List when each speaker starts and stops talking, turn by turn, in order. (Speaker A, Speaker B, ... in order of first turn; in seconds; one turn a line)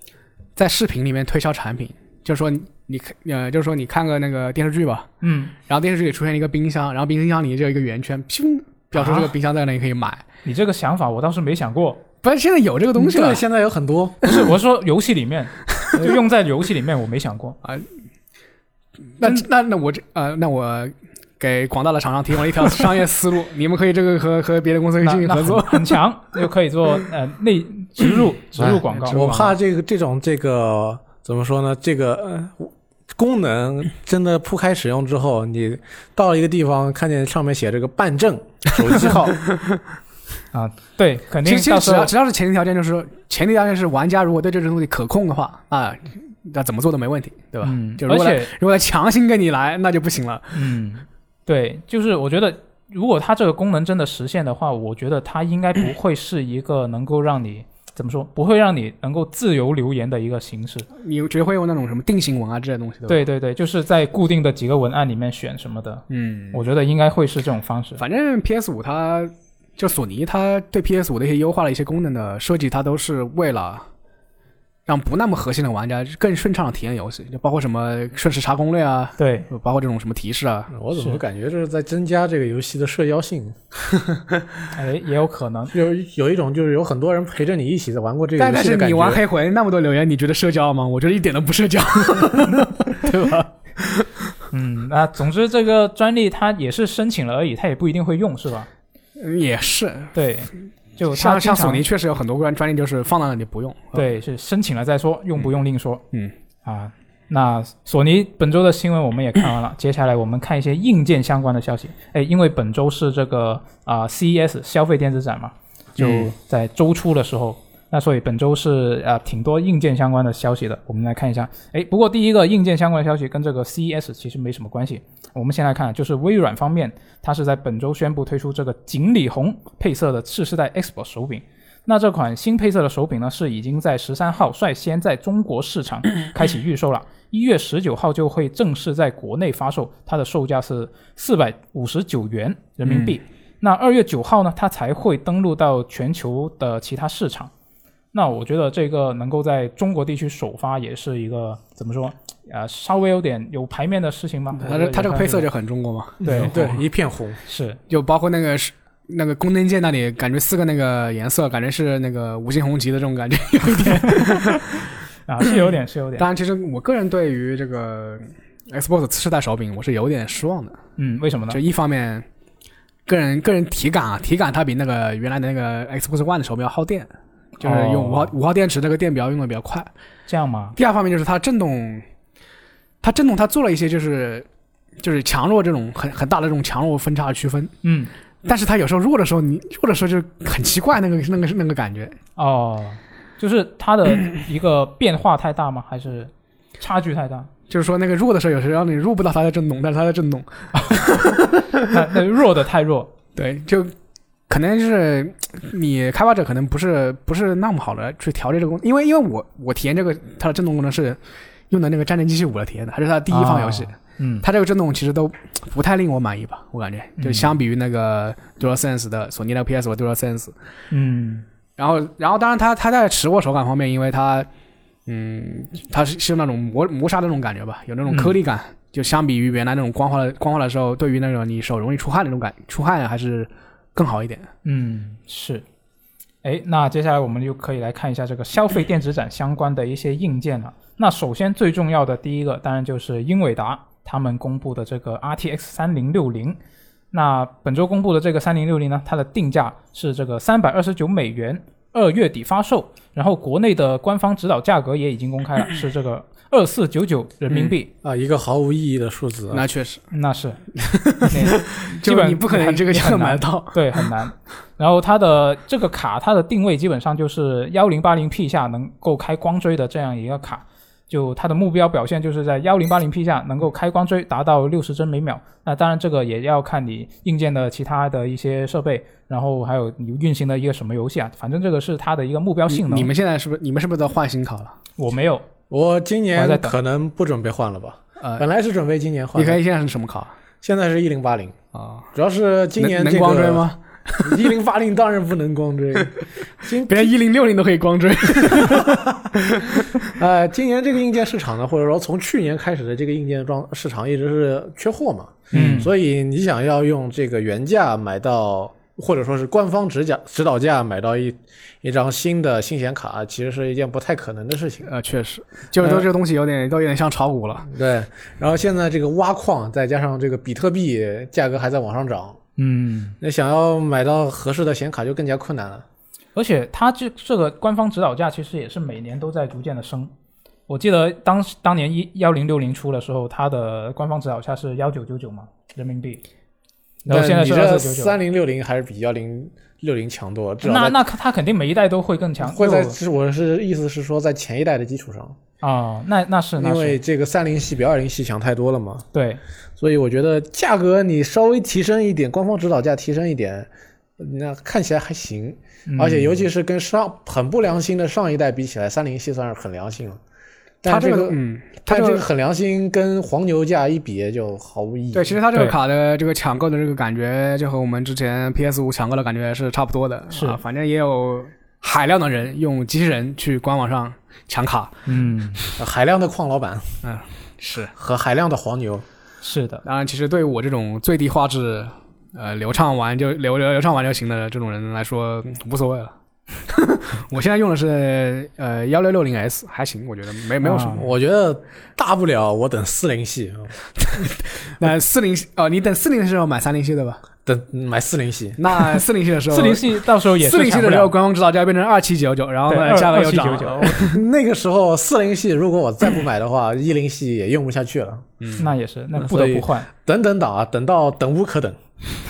Speaker A: 0.6-5.1
Speaker B: 5.2-5.5
Speaker A: 5.6-10.2
Speaker B: 8.9-9.3
Speaker B: 10.4-12.0
Speaker A: 12.2-13.4
Speaker C: 12.9-14.3
Speaker B: 14.2-17.6
Speaker A: 19.2-26.0
Speaker B: 25.0-29.3
Speaker C: 28.6-39.4
Speaker A: 28.9-29.5
Speaker B: 40.5-42.1
Speaker A: 41.4-50.5
Speaker B: 47.6-48.5
Speaker B: 50.5-60.9
Speaker A: 61.0-63.2
Speaker B: 63.1-68.0
Speaker A: 66.1-66.6
Speaker A: 68.0-73.8
Speaker A: 74.9-80.7
Speaker B: 79.2-79.5
Speaker C: 80.7-83.5
Speaker B: 80.9-81.2
Speaker B: 84.7-85.7
Speaker C: 85.7-89.2
Speaker A: 88.4-94.1
Speaker B: 94.5-98.7
Speaker A: 99.2-100.1
Speaker B: 100.1-101.8
Speaker A: 101.1-104.0
Speaker B: 103.9-106.0
Speaker B: 106.6-147.5
Speaker A: 116.0-116.3
Speaker A: 142.8-143.2
Speaker B: 148.1-155.5
Speaker A: 154.6-156.8
Speaker C: 156.2-157.4
Speaker B: 156.2-156.8
Speaker B: 157.4-157.8
Speaker A: 157.9-164.6
Speaker B: 164.1-164.6
Speaker B: 165.3-166.2
Speaker A: 166.2-170.8
Speaker B: 171.0-171.6
Speaker A: 171.5-172.2
Speaker A: 173.1-179.9
Speaker B: 177.6-178.3
Speaker B: 180.3-180.8
Speaker A: 180.8-182.0
Speaker A: 183.0-184.4
Speaker A: 185.0-187.7
Speaker B: 187.8-188.1
Speaker A: 188.4-192.2
Speaker B: 192.4-197.5
Speaker A: 197.7-201.5
Speaker B: 201.8-203.1
Speaker A: 203.3-203.9
Speaker A: 204.5-220.5
Speaker B: 213.3-214.4
Speaker B: 217.2-217.5
Speaker B: 220.9-221.4
Speaker A: 221.8-224.5
Speaker A: 225.1-234.5
Speaker B: 228.1-228.3
Speaker B: 234.6-235.6
Speaker B: 236.4-246.6
Speaker B: 247.1-257.9
Speaker C: 258.0-259.6
Speaker A: 259.5-260.0
Speaker B: 260.1-260.6
Speaker A: 260.8-264.0
Speaker B: 261.2-283.1
Speaker A: 282.7-284.8
Speaker B: 285.0-285.4
Speaker C: 285.7-289.6
Speaker B: 286.3-286.7
Speaker A: 289.4-290.3
Speaker C: 290.6-291.6
Speaker A: 291.7-292.1
Speaker C: 292.1-293.7
Speaker A: 292.8-294.4
Speaker C: 294.2-297.1
Speaker A: 296.9-299.0
Speaker C: 298.4-299.1
Speaker C: 300.1-314.9
Speaker B: 305.5-305.9
Speaker A: 305.5-305.9
Speaker A: 314.9-317.7
Speaker C: 315.8-316.1
Speaker C: 317.7-322.4
Speaker B: 322.6-323.1
Speaker C: 323.2-325.8
Speaker B: 326.3-330.1
Speaker B: 330.7-336.2
Speaker B: 337.1-338.2
Speaker C: 337.1-341.0
Speaker B: 340.6-342.9
Speaker C: 342.4-345.4
Speaker B: 345.6-347.0
Speaker C: 346.6-349.1
Speaker B: 349.1-349.4
Speaker C: 349.8-360.2
Speaker B: 355.9-356.4
Speaker C: 360.8-365.4
Speaker A: 360.9-362.2
Speaker A: 365.1-375.0
Speaker B: 370.3-370.6
Speaker B: 375.1-375.6
Speaker C: 375.8-377.0
Speaker A: 377.0-377.9
Speaker C: 377.9-379.0
Speaker B: 379.4-379.8
Speaker A: 379.8-386.1
Speaker A: 386.7-391.1
Speaker B: 390.6-391.1
Speaker C: 390.8-394.3
Speaker A: 394.1-397.2
Speaker C: 397.4-399.0
Speaker A: 398.6-404.2
Speaker B: 399.5-401.1
Speaker B: 402.7-403.9
Speaker C: 403.8-408.3
Speaker A: 408.4-408.7
Speaker B: 408.6-409.9
Speaker C: 409.2-411.8